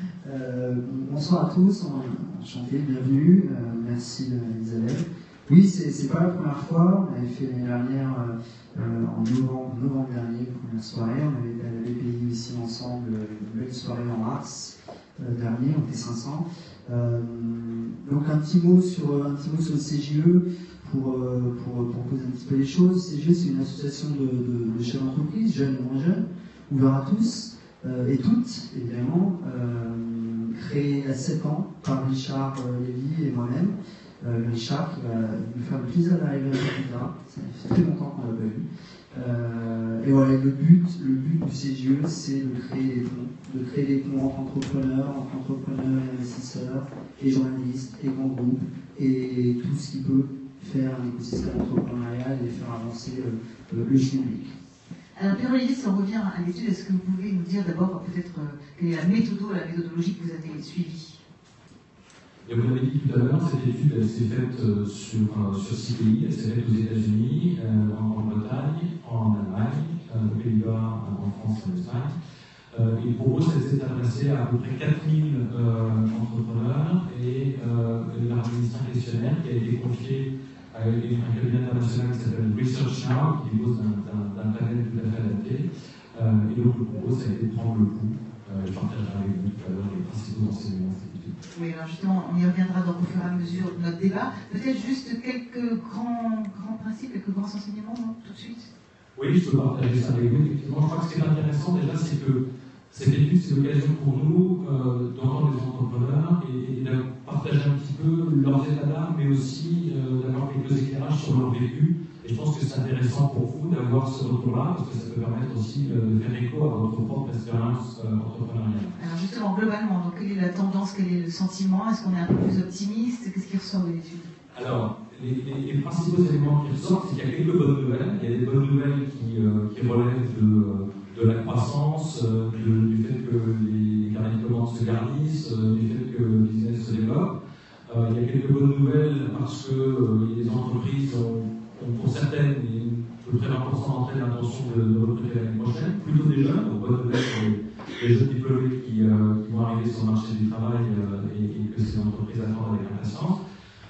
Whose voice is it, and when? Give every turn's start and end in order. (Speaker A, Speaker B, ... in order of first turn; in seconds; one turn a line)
Speaker A: 0.2-54.5
Speaker B: 55.1-61.2
Speaker C: 62.4-72.1
Speaker C: 72.7-91.3
Speaker B: 91.5-98.7
Speaker C: 99.2-118.9
Speaker B: 119.0-124.3
Speaker C: 124.5-137.3
Speaker C: 137.9-153.4